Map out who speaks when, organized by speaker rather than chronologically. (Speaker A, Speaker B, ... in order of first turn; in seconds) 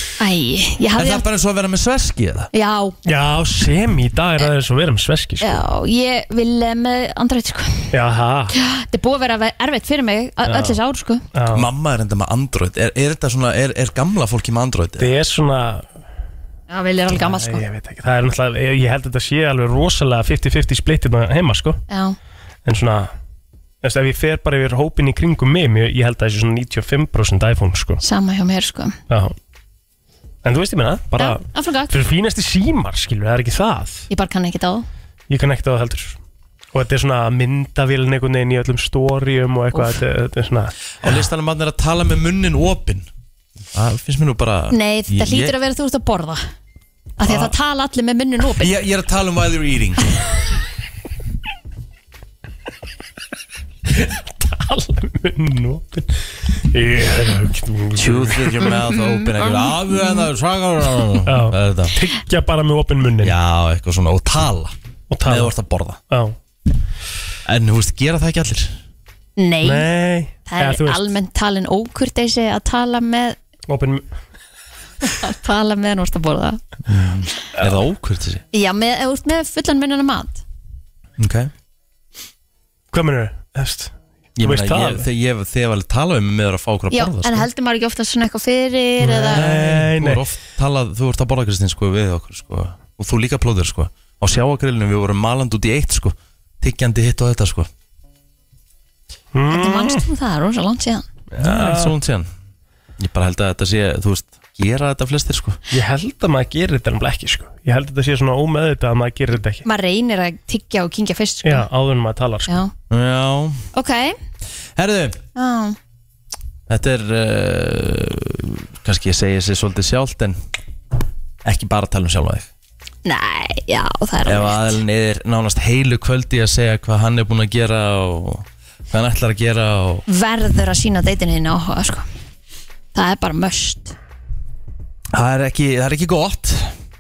Speaker A: 0.2-1.3, 2.5-3.0, 5.4-7.9, 8.5-11.2, 16.7-17.6, 21.9-22.2, 28.0-29.0, 31.2-31.9, 34.1-34.9, 44.7-46.5, 47.2-48.7, 58.6-60.3, 69.4-69.9, 70.5-73.4, 75.2-76.6, 78.5-80.4, 86.9-89.5, 99.5-101.1, 109.6-111.7, 113.7-114.2, 115.3-115.8, 123.0-124.8, 130.1-132.1, 132.9-133.9
Speaker B: 0.9-2.5, 11.5-15.1, 41.0-43.1, 43.7-45.5, 48.6-50.0, 58.0-61.9, 63.2-64.7, 65.2-66.0, 67.4-68.8, 76.8-78.4, 81.2-81.5, 84.4-87.5, 89.3-97.7, 101.4-102.3, 103.0-105.6, 112.9-113.7, 114.8-115.2, 116.7-120.4, 121.4-122.5, 124.2-130.1, 135.1-136.7
Speaker C: 3.0-5.6, 7.9-8.5, 10.4-10.8, 11.3-11.7, 15.0-15.8, 17.1-21.8, 22.6-23.1, 23.8-28.0, 29.1-29.4, 30.4-34.1, 35.3-36.2, 36.7-40.7, 53.9-58.7, 61.3-63.4, 65.1-65.5, 66.1-66.3, 69.6-71.0, 73.7-74.0, 82.9-85.1, 89.0-90.2, 99.3-100.0, 101.3-101.9, 105.7-109.6, 111.4-112.6